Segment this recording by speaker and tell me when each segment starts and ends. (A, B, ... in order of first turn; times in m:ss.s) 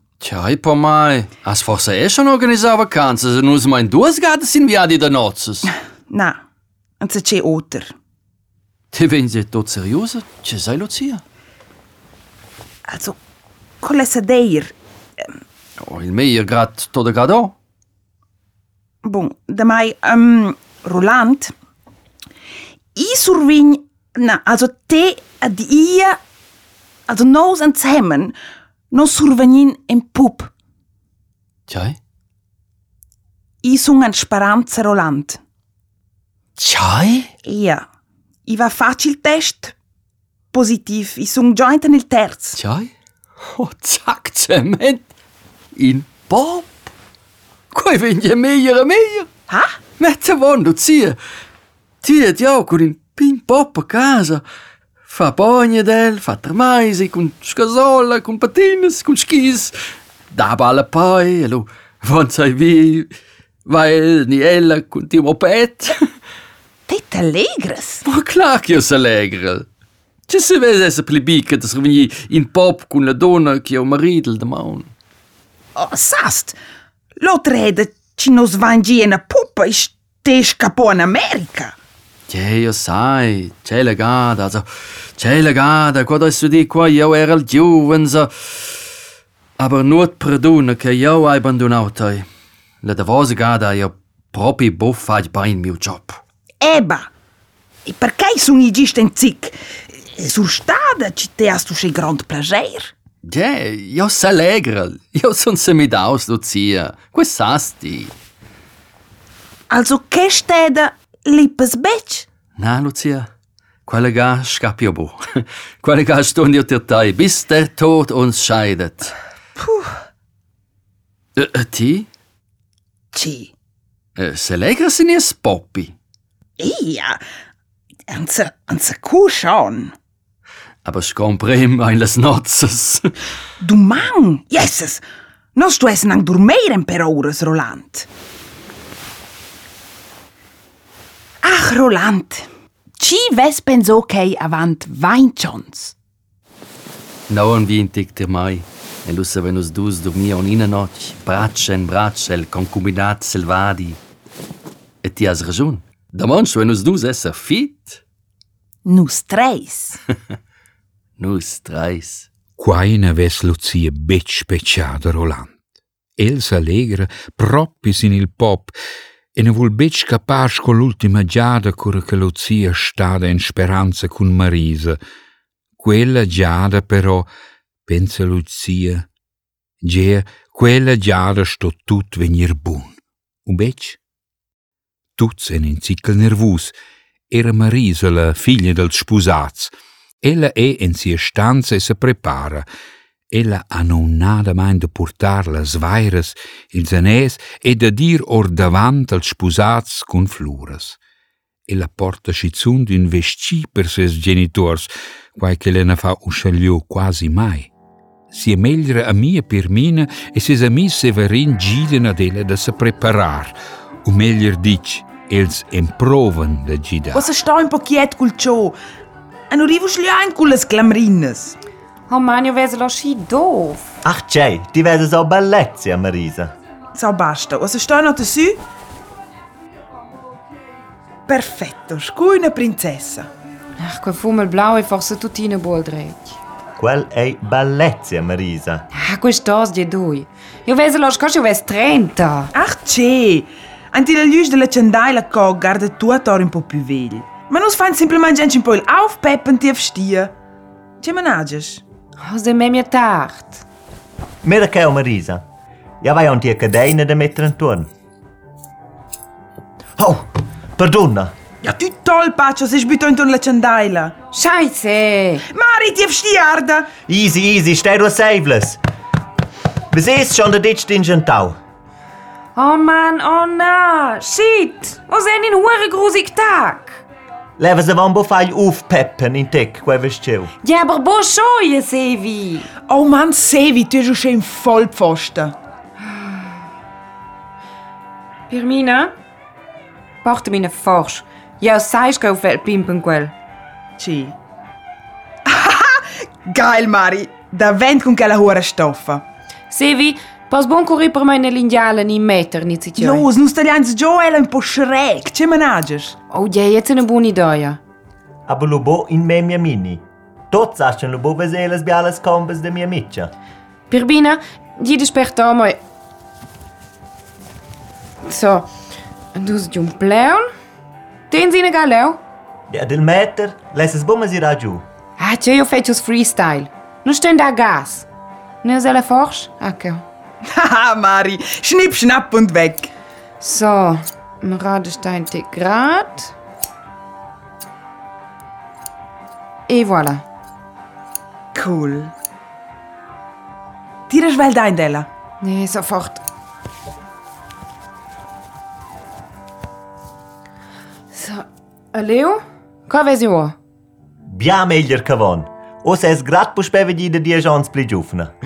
0:00.2-0:05.7 A
0:05.7-0:06.4 B
0:07.0-0:07.9 B
0:08.9-0:11.2 A
0:12.9-0:13.2 B
0:13.8-0:15.3 B
0:15.8-0:17.6 A
0:19.0-0:21.5 B
0:23.0-0:26.2 B
0:27.1-0:28.4 B
0:28.9-0:30.5 B
0:31.7-0:32.0 A
0:33.6-0:35.4 B
0:36.6-0:37.3 A
0:37.4-0:37.8 B
0:38.5-0:39.8 B
0:40.5-0:42.6 B
0:42.6-0:42.9 A
0:43.5-0:45.1 A
0:45.8-0:46.9 A
0:47.7-0:49.3 A
0:49.5-0:49.8 B
0:50.0-0:51.2 A
0:52.0-0:54.4 A
0:55.1-0:59.8 A
1:00.3-1:03.1 A
1:03.7-1:06.0 A
1:06.9-1:08.0 B
1:08.1-1:09.7 A
1:10.3-1:14.9 A
1:15.8-1:16.6 B
1:17.2-1:21.8 B
1:22.3-1:24.7 A
1:25.2-1:28.3 A
1:29.6-1:32.3 A
1:32.8-1:36.2 A
1:36.6-1:37.1 B
1:37.9-1:42.9 B
1:43.2-1:48.1 A
1:49.7-1:52.3 B
1:52.6-1:53.3 A
1:53.9-1:59.2 A
2:01.4-2:02.1 A
2:03.1-2:03.5 B
2:04.2-2:06.0 A
2:06.6-2:07.2 B
2:08.1-2:09.9 B
2:10.8-2:13.1 A
2:13.6-2:15.0 B
2:15.6-2:18.1 B
2:21.4-2:22.4 B
2:23.0-2:26.0 B
2:27.3-2:34.0 A
2:35.0-2:38.0 A
2:38.8-2:40.0 B
2:41.2-2:42.3 A
2:42.6-2:45.6 C
2:46.2-2:48.8 C
2:49.4-2:55.0 C
2:55.8-2:57.3 C
2:57.9-2:59.1 C
2:59.8-3:04.0 C
3:05.2-3:06.7 C
3:07.3-3:12.7 C
3:13.3-3:21.0 C
3:21.7-3:27.7 C
3:28.3-3:33.5 C
3:34.0-3:37.3 C
3:37.1-3:38.8 B
3:39.5-3:41.6 B
3:42.1-3:43.9 D
3:44.0-3:46.5 E
3:47.0-3:48.6 B
3:51.3-3:53.3 B
3:53.8-3:56.4 D
3:56.8-3:58.9 E
3:59.0-4:02.5 D
4:02.5-4:10.3 B
4:11.0-4:11.8 B
4:12.2-4:13.6 D
4:14.4-4:15.4 E
4:16.0-4:17.9 E
4:20.0-4:21.3 E
4:21.6-4:24.2 B
4:24.3-4:25.4 D
4:25.5-4:26.9 B
4:27.1-4:28.8 E
4:29.9-4:31.6 E
4:32.6-4:37.0 D
4:37.6-4:40.5 E
4:40.6-4:42.7 D
4:42.9-4:45.6 B
4:46.0-4:46.5 D
4:48.5-4:49.1 D
4:50.2-4:53.3 D
4:54.0-4:54.4 B
4:55.5-4:59.2 B
4:59.7-5:03.3 D
5:03.0-5:06.2 B
5:06.3-5:07.8 D
5:08.5-5:13.3 E
5:13.9-5:15.8 D
5:18.2-5:18.7 D
5:19.4-5:20.4 D
5:21.3-5:22.2 D
5:22.7-5:24.8 E
5:25.2-5:28.1 D
5:28.6-5:30.0 D
5:30.5-5:32.9 B
5:33.4-5:36.3 D
5:39.7-5:40.2 D
5:41.6-5:42.1 B
5:44.1-5:45.1 B
5:45.4-5:46.2 D
5:51.1-5:53.6 D
5:54.3-5:58.3 E